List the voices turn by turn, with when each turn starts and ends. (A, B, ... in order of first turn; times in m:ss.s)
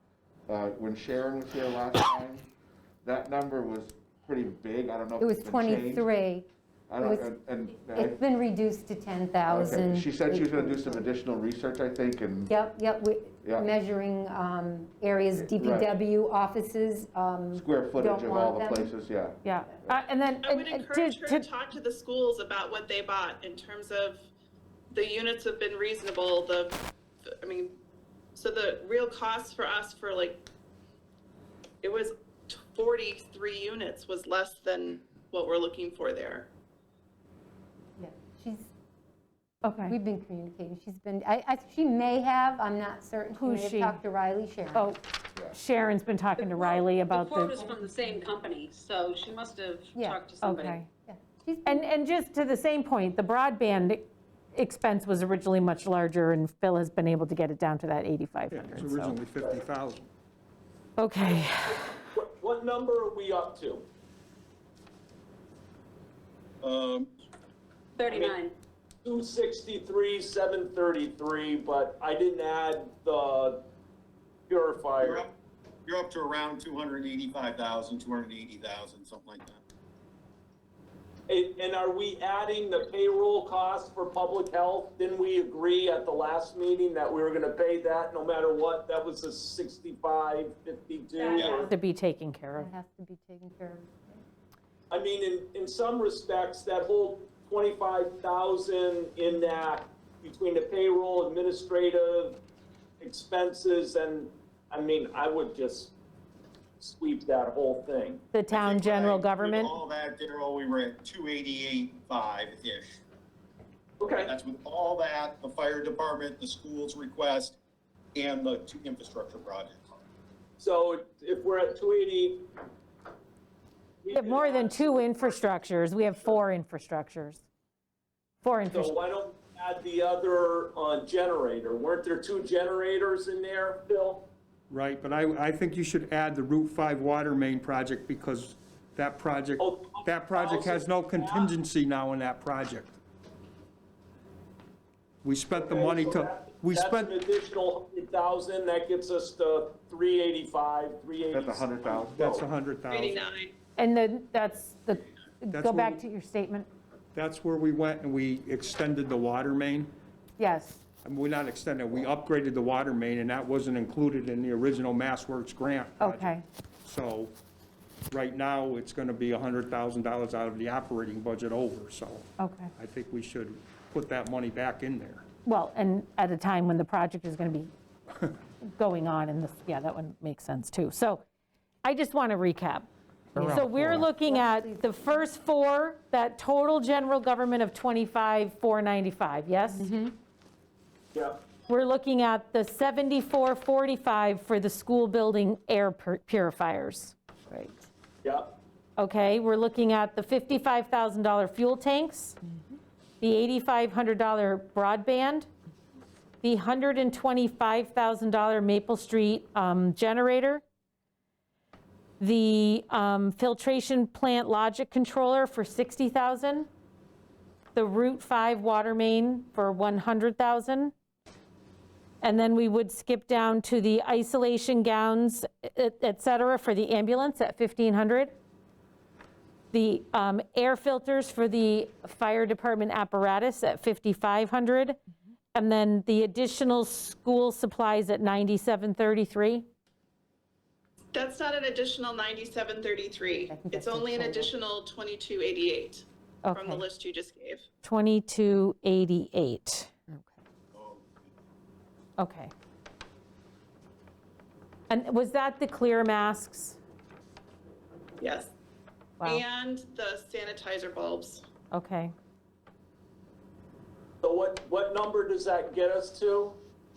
0:00.5-0:02.5 A
0:03.0-0:06.1 A
0:05.2-0:06.5 B
0:06.9-0:08.2 A
0:07.0-0:07.4 B
0:07.9-0:11.1 B
0:09.4-0:12.5 A
0:12.5-0:18.9 B
0:13.4-0:13.7 A
0:15.3-0:16.0 A
0:17.5-0:20.0 A
0:19.4-0:21.5 C
0:20.4-0:24.2 D
0:24.9-0:27.8 D
0:28.3-0:30.4 D
0:31.8-0:36.5 D
0:38.0-0:38.7 B
0:39.6-0:40.0 C
0:39.8-0:44.9 B
0:43.3-0:44.0 C
0:44.7-0:47.7 C
0:46.4-0:50.8 E
0:49.9-0:50.2 B
0:50.4-0:50.9 C
0:51.1-0:51.8 B
0:51.6-0:59.2 C
0:58.5-1:00.1 F
1:01.0-1:01.9 C
1:01.2-1:03.8 G
1:06.6-1:07.1 H
1:08.0-1:08.5 E
1:08.0-1:08.3 G
1:09.0-1:13.6 G
1:14.5-1:15.3 G
1:15.0-1:15.3 H
1:15.8-1:19.6 H
1:21.3-1:31.7 G
1:31.2-1:32.7 C
1:32.6-1:34.2 B
1:34.9-1:42.4 G
1:43.0-1:45.9 G
1:46.8-1:48.2 G
1:48.3-1:49.7 C
1:48.5-1:53.0 H
1:54.0-1:54.3 G
1:54.2-1:57.6 H
1:58.1-1:59.8 H
2:00.6-2:02.4 G
2:04.0-2:05.5 G
2:04.1-2:07.4 C
2:06.0-2:06.4 G
2:08.4-2:08.9 C
2:08.7-2:14.3 G
2:14.7-2:23.0 F
2:19.6-2:21.6 G
2:25.2-2:27.1 F
2:25.5-2:32.5 G
2:31.3-2:32.2 A
2:32.2-2:33.3 F
2:32.9-2:33.5 D
2:33.8-2:36.7 C
2:35.5-2:36.0 F
2:37.1-2:39.9 F
2:40.4-2:40.8 C
2:41.0-2:47.3 F
2:46.0-2:46.4 C
2:48.1-2:55.2 F
2:52.4-2:52.7 C
2:55.4-2:57.7 C
2:58.6-3:01.2 C
3:01.8-3:02.9 C
3:03.4-3:09.9 C
3:03.9-3:05.2 B
3:09.8-3:10.1 B
3:11.1-3:11.4 G
3:11.7-3:17.8 C
3:18.2-3:18.6 G
3:19.0-3:22.4 C
3:23.2-3:25.5 C
3:26.4-3:30.6 C
3:32.2-3:36.7 C
3:37.7-3:40.9 C
3:42.2-3:48.4 C
3:49.7-3:55.0 C
3:55.5-3:59.6 C
4:01.1-4:07.6 D
4:03.3-4:04.5 B
4:06.4-4:06.8 C
4:07.8-4:09.9 C
4:10.1-4:10.4 B
4:10.7-4:11.0 H
4:12.2-4:12.5 C
4:14.9-4:16.8 C
4:18.2-4:18.5 D
4:19.2-4:21.5 D
4:21.7-4:22.1 C
4:24.2-4:26.6 G